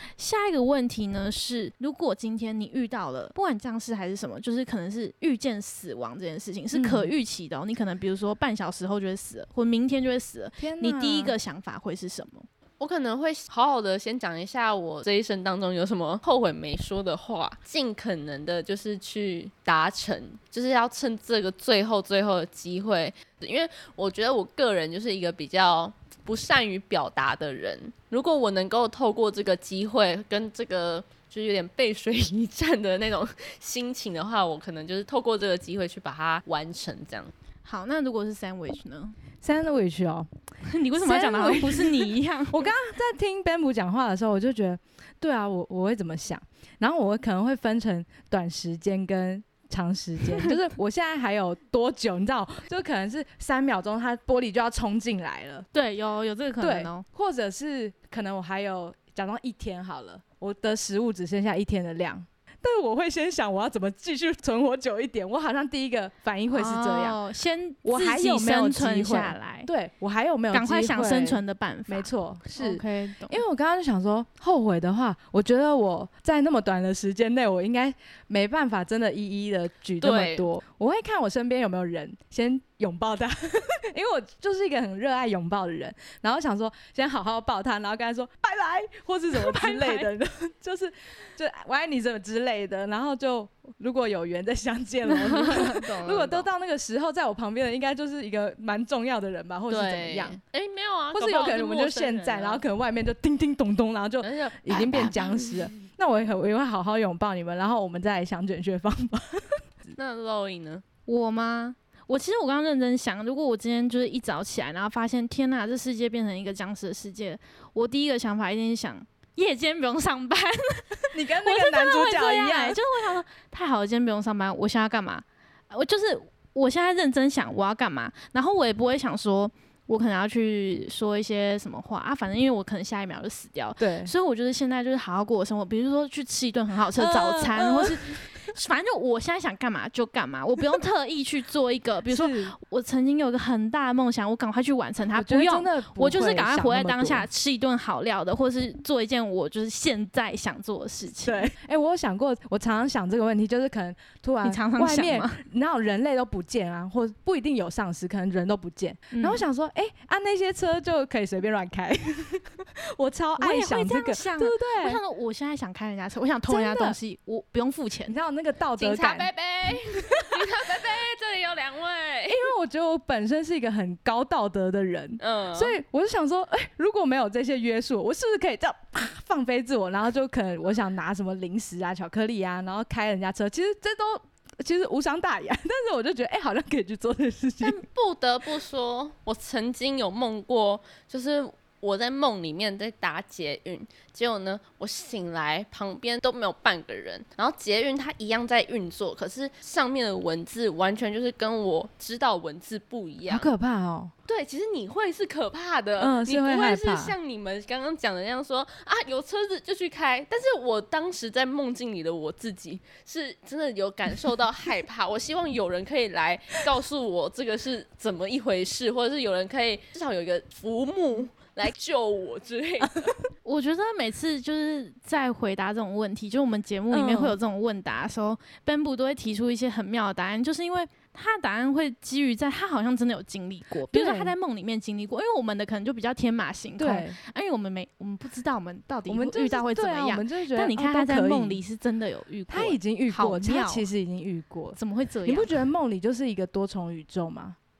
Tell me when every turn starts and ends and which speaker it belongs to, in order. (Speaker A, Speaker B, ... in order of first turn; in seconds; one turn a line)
Speaker A: 0.2-12.5
Speaker B: 6.7-7.1
Speaker B: 10.6-11.3
Speaker C: 12.8-37.3
Speaker A: 37.6-39.2
Speaker B: 39.4-40.3
Speaker A: 40.6-42.7
Speaker B: 41.0-55.6
Speaker A: 55.7-57.0
Speaker B: 56.6-67.2
Speaker A: 66.5-69.7
Speaker B: 67.8-100.4
Speaker A: 70.5-73.4
Speaker C: 80.0-80.5
Speaker A: 89.3-90.1
Speaker C: 95.3-96.5
Speaker C: 99.7-102.6
Speaker B: 101.1-110.0
Speaker C: 104.2-105.7
Speaker C: 110.0-110.8
Speaker A: 111.1-151.5
Speaker B: 121.1-122.8
Speaker B: 133.8-134.1
Speaker B: 136.9-138.5
Speaker B: 142.1-142.5
Speaker B: 145.1-147.3
Speaker B: 151.2-165.0
Speaker A: 154.4-155.4
Speaker A: 159.1-159.4
Speaker A: 163.4-168.2
Speaker B: 166.5-167.0
Speaker B: 168.1-169.3
Speaker C: 168.8-172.5
Speaker B: 170.2-170.4
Speaker B: 172.3-187.8
Speaker C: 175.2-175.8
Speaker C: 187.6-203.5
Speaker B: 203.3-204.1
Speaker C: 204.3-223.2
Speaker B: 206.0-207.2
Speaker A: 223.4-243.9
Speaker B: 226.9-227.4
Speaker B: 233.9-234.3
Speaker B: 236.8-237.2
Speaker B: 239.1-241.6
Speaker B: 242.5-247.6
Speaker A: 244.8-245.6